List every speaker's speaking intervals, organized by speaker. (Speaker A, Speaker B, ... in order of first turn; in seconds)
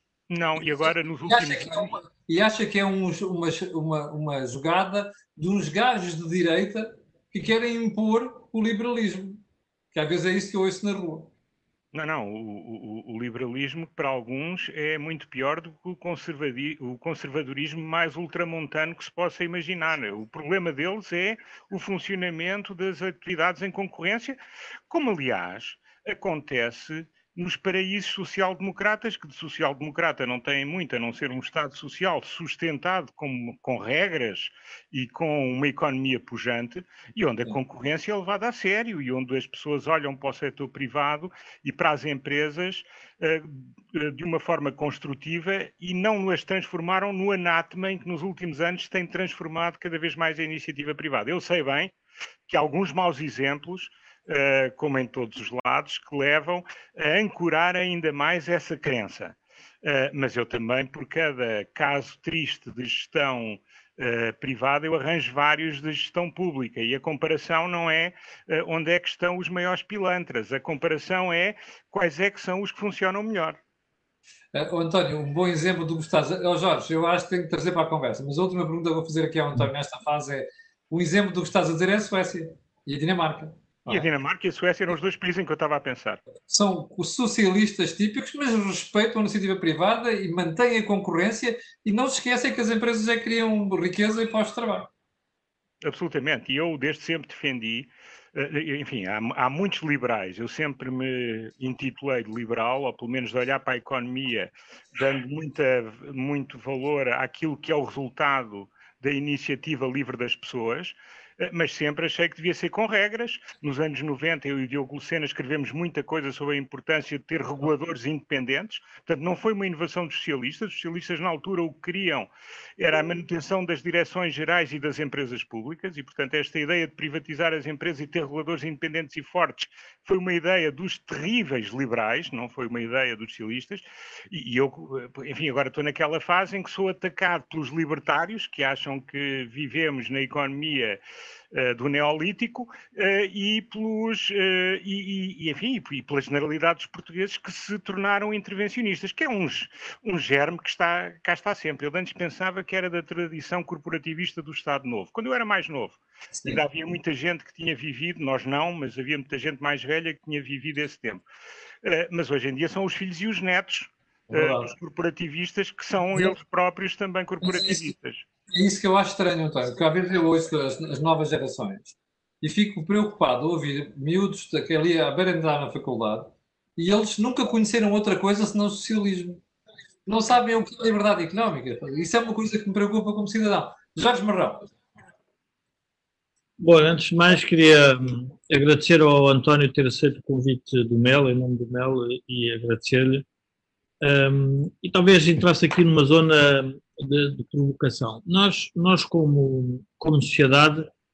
Speaker A: 0.3-2.0, 11.9-24.4, 24.9-51.9, 52.5-73.6, 83.9-86.2, 95.8-141.0, 141.5-161.2, 161.8-168.2
Speaker B: 1.3-9.4, 9.9-11.3, 74.5-84.1, 86.5-94.9, 156.3-156.6, 164.3-164.8, 167.4-167.9, 168.5-179.4, 180.1-184.7
Speaker C: 186.6-193.2, 194.0-200.9